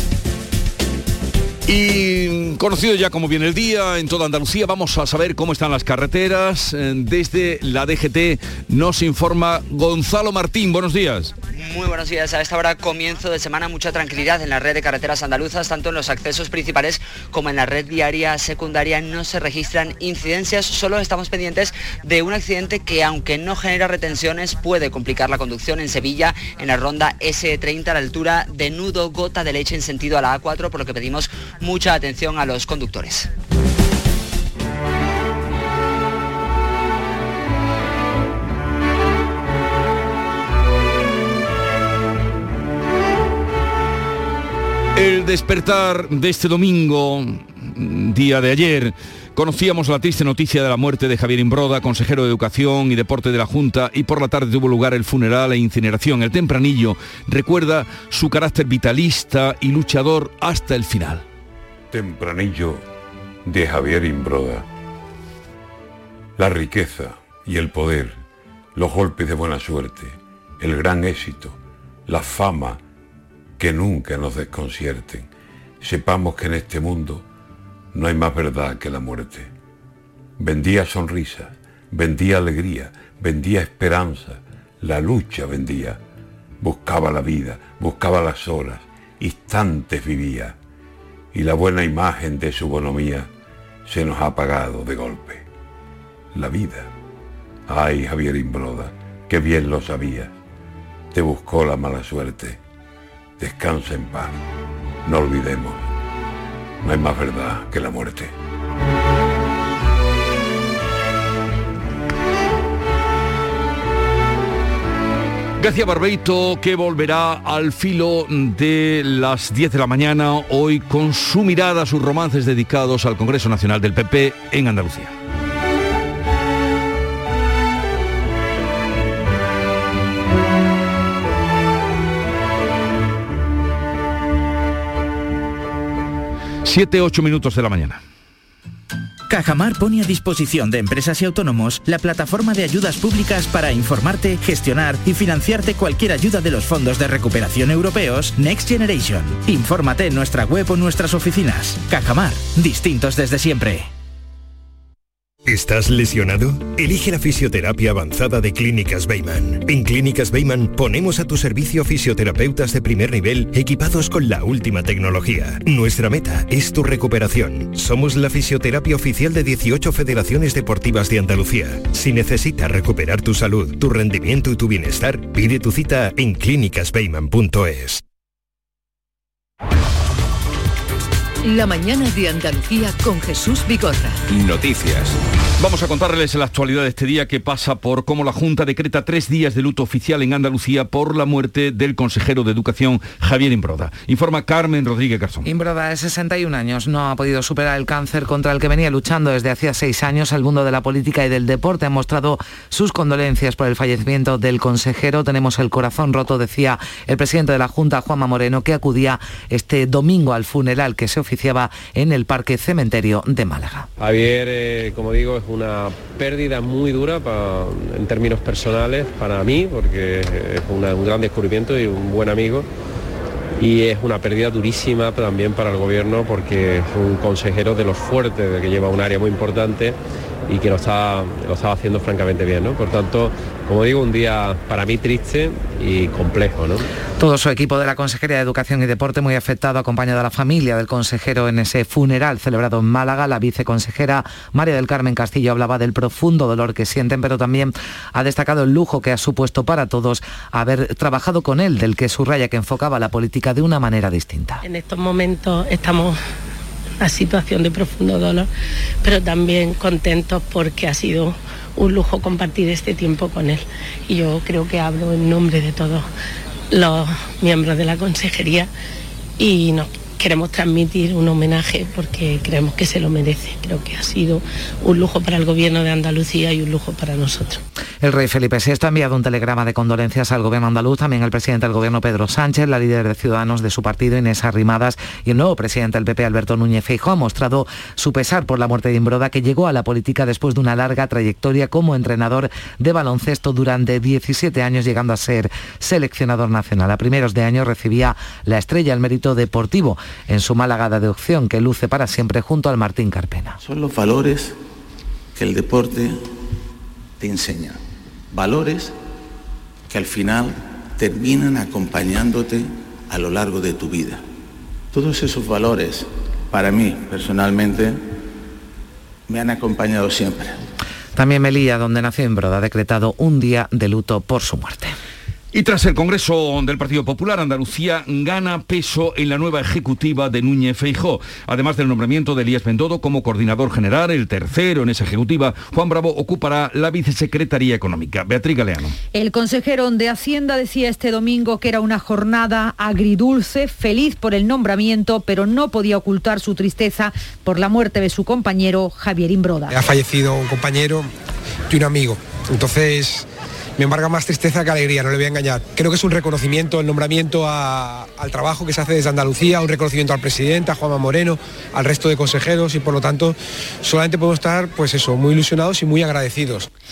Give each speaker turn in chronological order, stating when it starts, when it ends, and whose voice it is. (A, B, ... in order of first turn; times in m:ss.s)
0:01.7-0:11.3 A
0:11.5-0:33.3 B
0:45.0-1:01.2 A
1:01.9-1:02.8 C
1:03.5-1:04.7 C
1:06.4-1:08.2 C
1:08.8-1:12.8 C
1:13.6-1:15.3 C
1:15.8-1:17.2 C
1:17.9-1:19.5 C
1:20.4-1:26.0 C
1:26.6-1:30.6 C
1:31.3-1:33.3 C
1:33.9-1:35.4 C
1:36.3-1:36.9 C
1:37.7-1:40.3 C
1:41.1-1:42.6 C
1:43.4-1:44.3 C
1:45.0-1:45.8 C
1:46.8-1:48.3 C
1:55.6-2:05.1 A
2:16.6-2:18.0 A
2:19.3-2:33.9 D
2:35.5-2:58.0 E
3:01.4-3:04.2 F
3:05.6-3:15.5 A
3:15.4-3:33.9 G
3:34.0-3:42.7 H
3:43.6-3:56.9 H
3:57.2-4:14.6 G
4:14.6-4:16.2 I
4:17.0-4:18.5 I
4:19.0-4:26.1 I
4:26.7-4:28.7 I
4:29.4-4:37.6 I
4:38.0-5:03.6 G
5:03.6-5:04.6 J
5:05.4-5:06.2 J
5:07.2-5:07.8 J
5:08.3-5:08.9 J
5:09.9-5:14.2 J
5:14.9-5:18.0 J
5:19.3-5:20.6 J
5:21.2-5:24.9 G
5:25.5-5:39.0 A
5:39.1-5:49.7 K
5:49.7-5:51.1 L
5:51.7-5:53.3 L
5:53.8-6:06.7 L